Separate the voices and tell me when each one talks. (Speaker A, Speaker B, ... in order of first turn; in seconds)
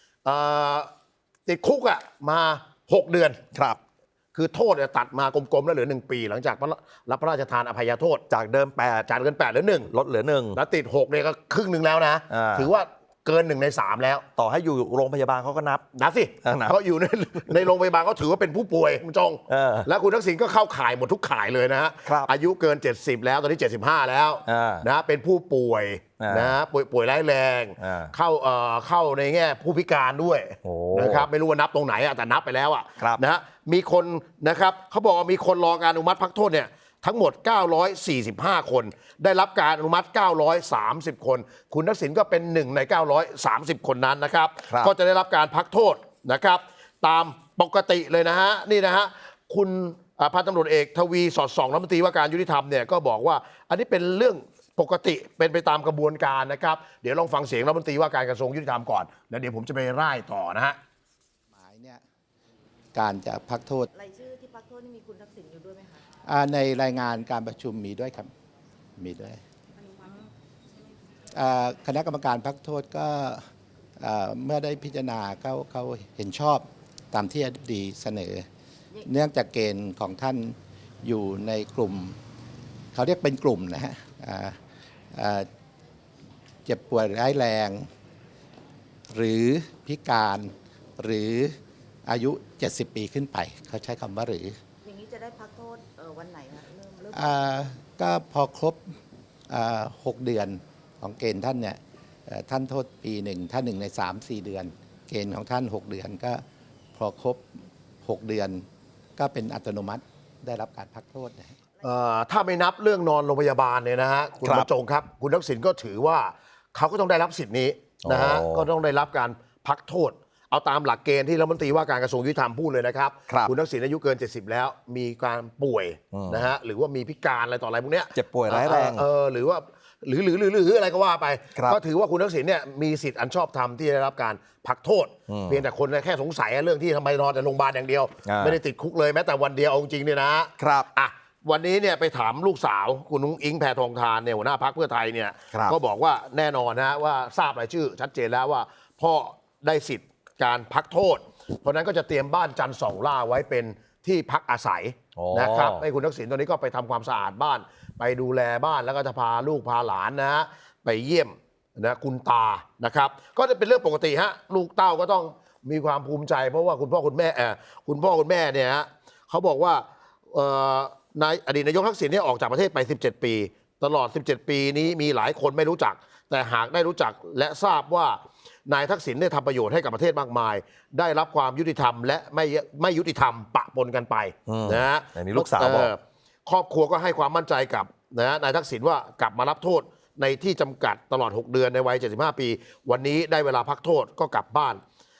Speaker A: 0.2-0.9, 1.5-3.4, 4.3-8.2, 9.1-9.9, 10.6-14.2, 15.9-60.8, 111.8-194.8
Speaker B: 3.5-3.8, 8.3-9.1, 9.9-10.6, 12.3-12.7, 14.4-15.8, 16.4-16.8, 19.5-19.9, 22.1-22.3, 24.5-24.9, 26.2-26.6, 27.8-28.1, 30.6-31.3, 114.4-114.7, 118.0-118.7, 126.1-126.5, 128.2-129.1, 131.5-131.8, 135.3-135.7, 138.2-138.6, 140.6-140.9, 145.5-145.8, 155.2-155.8, 184.5-185.9
Speaker C: 61.5-62.0, 62.9-63.9, 66.2-68.3, 69.0-69.4, 71.3-73.4, 74.0-78.5, 79.0-82.2, 82.9-84.6, 85.1-85.5, 86.7-87.9, 89.1-91.5, 92.1-94.6, 97.1-98.9, 99.5-106.4, 107.0-108.7, 109.2-111.6
Speaker D: 63.9-66.0, 94.8-97.6